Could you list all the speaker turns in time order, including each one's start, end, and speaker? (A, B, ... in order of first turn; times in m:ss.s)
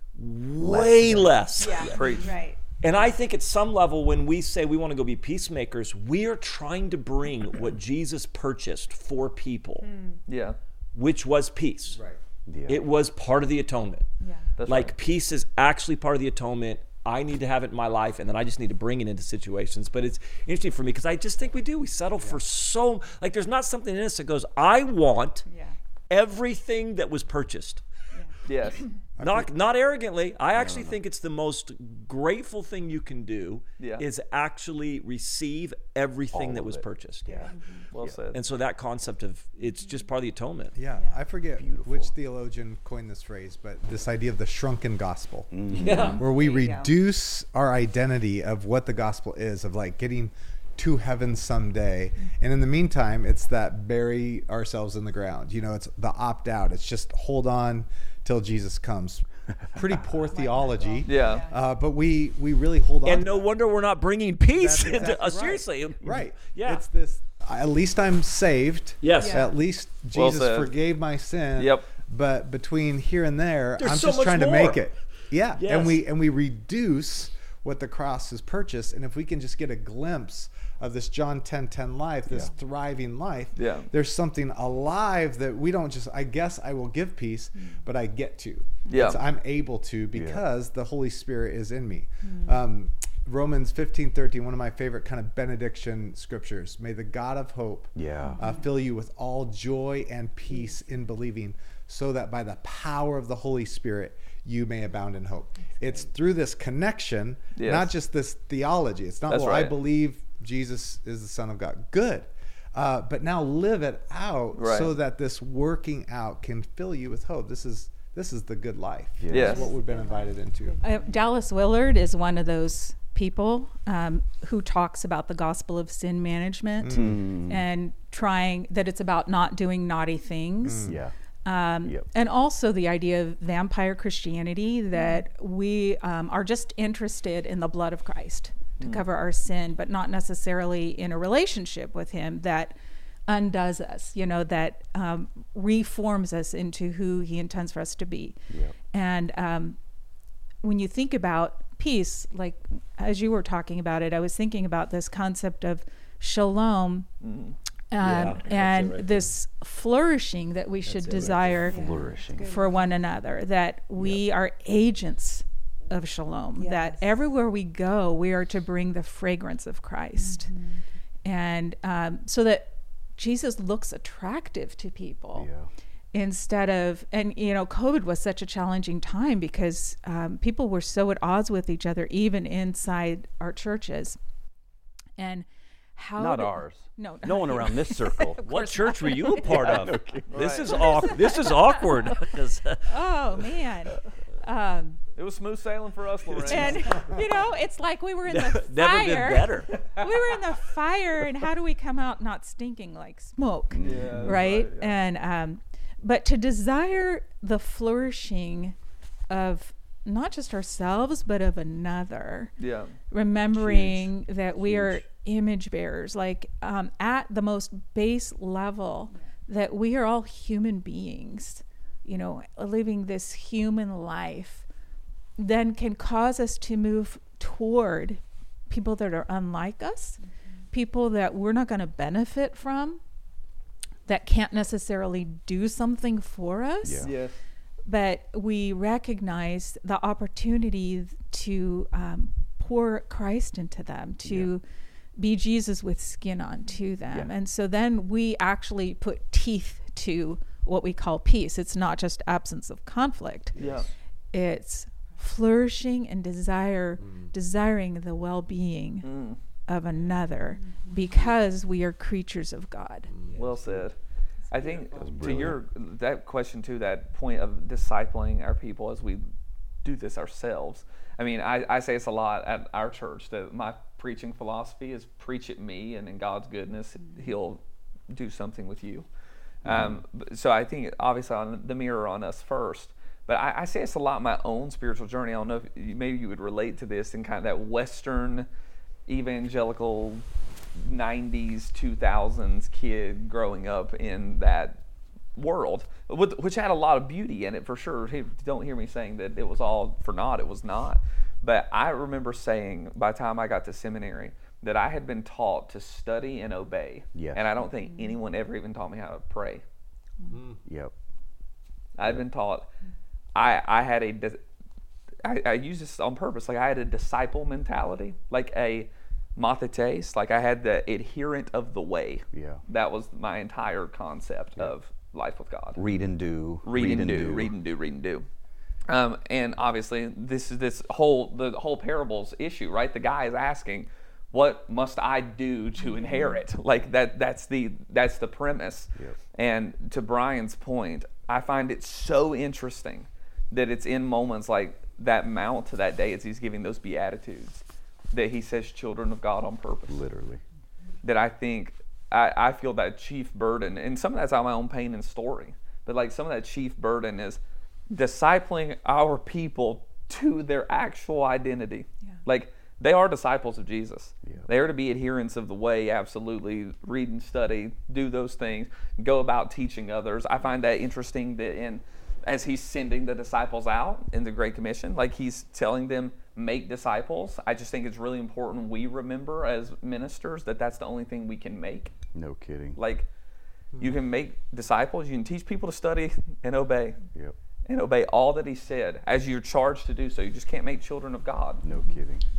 0:00.2-0:02.2 A
0:00.6-0:02.0 B
0:01.6-0:02.6 C
0:01.8-0:02.4 D
0:02.8-0:09.9 A
0:09.8-0:10.2 C
0:10.3-0:10.6 D
0:10.9-0:12.0 A
0:11.9-0:12.2 E
0:12.4-0:12.8 B
0:12.7-0:14.0 A
0:14.2-0:14.5 C
0:14.6-0:14.9 D
0:14.7-0:25.4 A
0:25.4-0:25.8 C
0:26.1-0:27.8 A
0:28.4-0:28.8 D
0:29.2-0:29.5 E
0:29.2-0:37.5 A
0:30.5-0:31.0 B
0:33.8-0:34.0 D
0:36.3-0:38.2 B
0:37.2-0:37.9 C
0:37.9-0:38.4 D
0:38.3-0:40.7 A
0:40.7-1:03.5 E
0:40.9-0:41.2 C
0:41.6-0:42.1 B
0:45.5-0:46.2 B
0:45.8-0:46.2 A
0:45.8-0:46.9 C
1:00.2-1:01.6 C
1:01.0-1:01.4 D
1:03.0-1:06.8 A
1:04.5-2:00.8 E
1:09.0-1:09.5 A
1:09.2-1:09.5 C
1:10.1-1:10.7 D
1:11.6-1:11.9 D
1:13.8-1:14.9 A
1:15.5-1:16.0 A
1:23.6-1:23.9 D
1:28.9-1:29.2 D
1:30.1-1:30.4 B
1:32.2-1:32.6 C
1:37.9-1:38.4 B
1:38.2-1:38.7 C
1:47.6-1:47.9 D
1:49.3-1:49.7 D
1:54.5-1:54.9 D
1:59.2-1:59.7 B
1:59.3-1:59.7 D
1:59.3-2:01.3 C
2:00.8-2:22.8 F
2:06.8-2:07.2 E
2:06.9-2:07.6 B
2:10.6-2:11.0 E
2:10.8-2:11.1 B
2:14.9-2:15.2 C
2:23.3-2:29.8 F
2:30.6-2:37.1 F
2:37.2-2:37.6 D
2:37.9-2:50.5 F
2:38.0-2:39.3 A
2:40.8-2:41.7 A
2:41.3-2:42.5 B
2:41.7-2:42.9 C
2:46.6-2:47.1 C
2:50.2-2:50.8 C
2:51.2-2:55.5 F
2:55.3-2:55.7 B
2:56.1-3:04.2 F
3:05.2-3:09.8 F
3:06.2-3:08.4 B
3:08.4-3:13.0 A
3:09.4-3:10.8 B
3:10.3-3:10.8 D
3:10.7-3:12.3 F
3:12.8-3:15.0 F
3:15.2-3:17.0 D
3:16.4-3:28.7 F
3:18.2-3:19.9 A
3:23.7-3:24.4 B
3:23.8-3:25.0 D
3:29.3-3:32.5 F
3:32.6-3:33.0 D
3:33.1-3:44.6 F
3:45.4-3:53.0 F
3:54.1-3:57.1 F
3:56.8-3:57.1 B
3:57.0-3:57.4 D
3:57.8-4:04.6 F
4:05.2-4:13.6 F
4:13.6-4:13.9 D
4:14.3-4:19.1 F
4:17.0-4:17.3 E
4:19.0-4:19.4 D
4:19.7-4:23.1 F
4:23.1-4:23.5 E
4:23.3-4:24.0 D
4:24.5-4:29.2 D
4:24.8-4:25.6 B
4:29.8-4:39.1 D
4:39.6-4:40.0 B
4:39.6-4:48.5 D
4:49.1-4:54.8 D
4:55.3-5:09.6 D
5:07.1-5:07.4 B
5:07.8-5:08.1 C
5:10.3-5:10.6 E
5:10.6-5:10.9 B
5:12.0-5:12.7 D
5:13.3-5:14.4 D
5:15.2-5:25.8 D
5:22.3-5:22.6 B
5:25.8-5:27.5 B
5:26.6-5:28.2 D
5:28.9-5:50.0 D
5:35.9-5:36.4 F
5:49.9-5:50.4 B
5:51.0-6:22.0 D
6:22.1-6:22.8 B
6:22.7-6:23.1 D
6:23.8-6:27.0 D
6:27.6-6:31.6 D
6:31.6-6:32.2 B